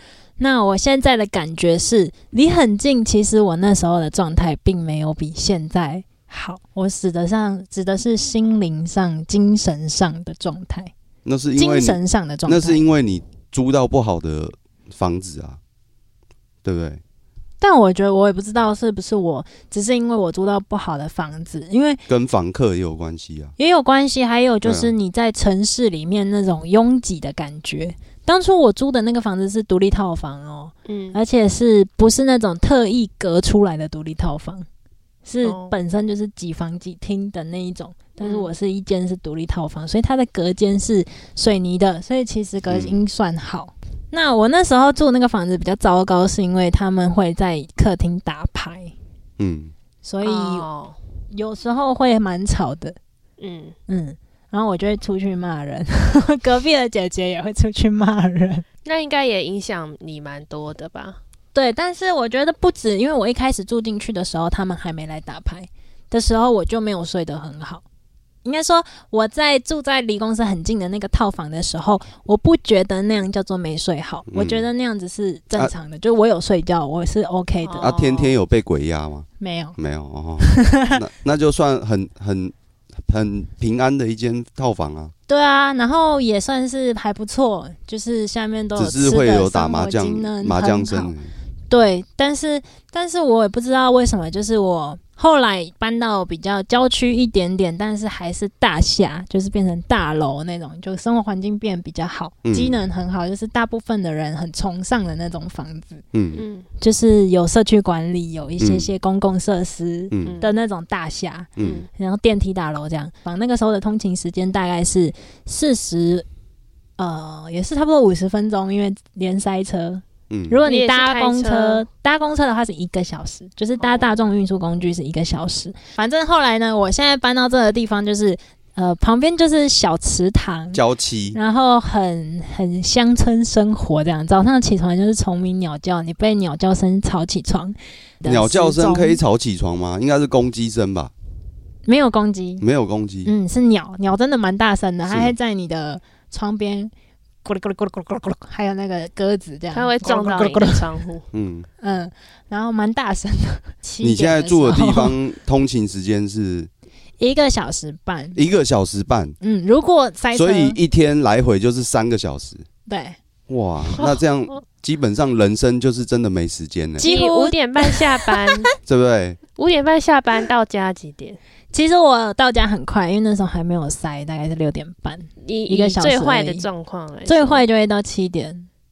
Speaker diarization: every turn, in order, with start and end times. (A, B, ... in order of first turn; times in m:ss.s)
0:00.4-0:10.9 A
0:11.2-0:15.6 B
0:11.6-0:12.8 A
0:16.6-0:17.0 B
0:17.6-0:22.0 A
0:22.1-0:23.5 B
0:23.6-0:34.7 A
0:24.6-0:24.9 B
0:30.8-0:31.2 C
0:35.2-0:48.9 A
0:35.4-0:35.7 C
0:38.2-0:38.5 C
0:42.7-0:43.0 B
0:49.4-0:49.7 B
0:50.0-0:50.6 A
0:50.2-0:51.0 C
0:51.3-0:53.0 A
0:53.4-0:53.8 C
0:53.9-0:58.6 A
0:58.8-1:01.2 C
1:01.5-1:07.8 A
1:08.4-1:18.1 A
1:14.3-1:14.6 B
1:17.6-1:18.2 C
1:17.8-1:22.5 B
1:19.4-1:19.8 A
1:20.4-1:21.0 A
1:23.0-1:25.1 B
1:25.3-1:31.1 A
1:28.8-1:31.3 B
1:31.7-1:46.0 A
1:42.4-1:42.8 B
1:46.1-1:46.4 B
1:46.3-1:46.6 C
1:46.8-1:56.2 A
1:48.6-1:48.9 B
1:50.1-1:50.4 B
1:50.2-1:50.5 C
1:51.6-1:51.8 B
1:51.6-1:51.9 C
1:57.0-2:10.8 A
2:00.3-2:00.6 B
2:00.6-2:01.8 C
2:03.8-2:04.2 C
2:10.7-2:11.4 B
2:11.3-2:19.2 A
2:18.2-2:21.1 B
2:21.8-2:22.6 A
2:22.6-2:23.3 B
2:23.2-2:26.9 A
2:25.1-2:25.3 B
2:27.4-2:30.8 A
2:29.7-2:31.2 C
2:31.3-2:31.7 B
2:31.8-2:35.2 A
2:34.0-2:36.7 B
2:37.2-2:38.4 A
2:38.3-2:39.4 B
2:39.4-2:40.8 A
2:40.3-2:42.6 B
2:42.9-2:43.2 A
2:43.5-2:47.1 B
2:43.9-2:44.6 C
2:47.0-2:48.5 A
2:47.0-2:48.7 C
2:48.8-2:49.4 B
2:49.6-2:51.4 C
2:51.7-2:56.6 A
2:55.4-2:57.6 C
2:57.2-2:58.7 A